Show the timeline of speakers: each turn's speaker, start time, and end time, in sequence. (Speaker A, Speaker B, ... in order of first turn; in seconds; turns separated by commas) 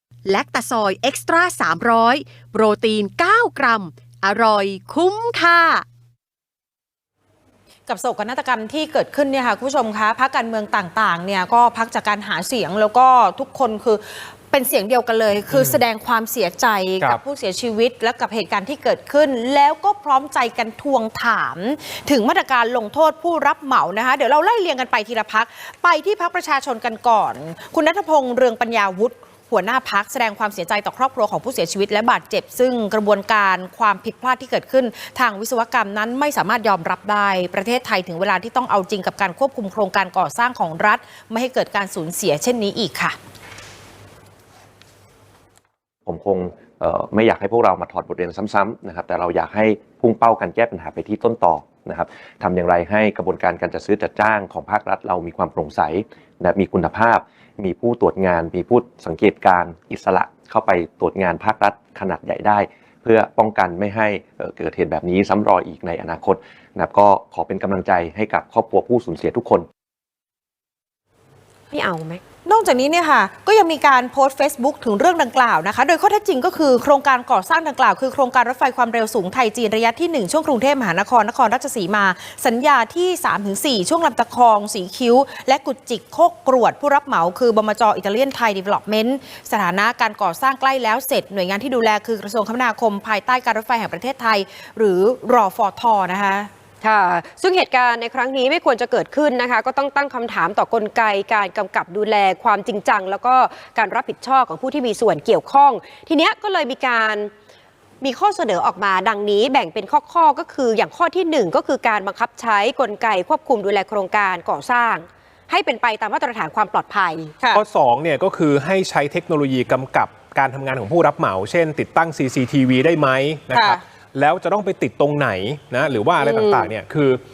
Speaker A: 0.2-5.8, Speaker B: 7.8-43.1, Speaker C: 15.5-15.8, Speaker D: 46.0-69.7, Speaker E: 71.7-72.2, Speaker B: 72.5-96.5, Speaker E: 96.8-107.3, Speaker E: 108.0-117.4, Speaker C: 117.5-127.2, Speaker E: 126.2-126.7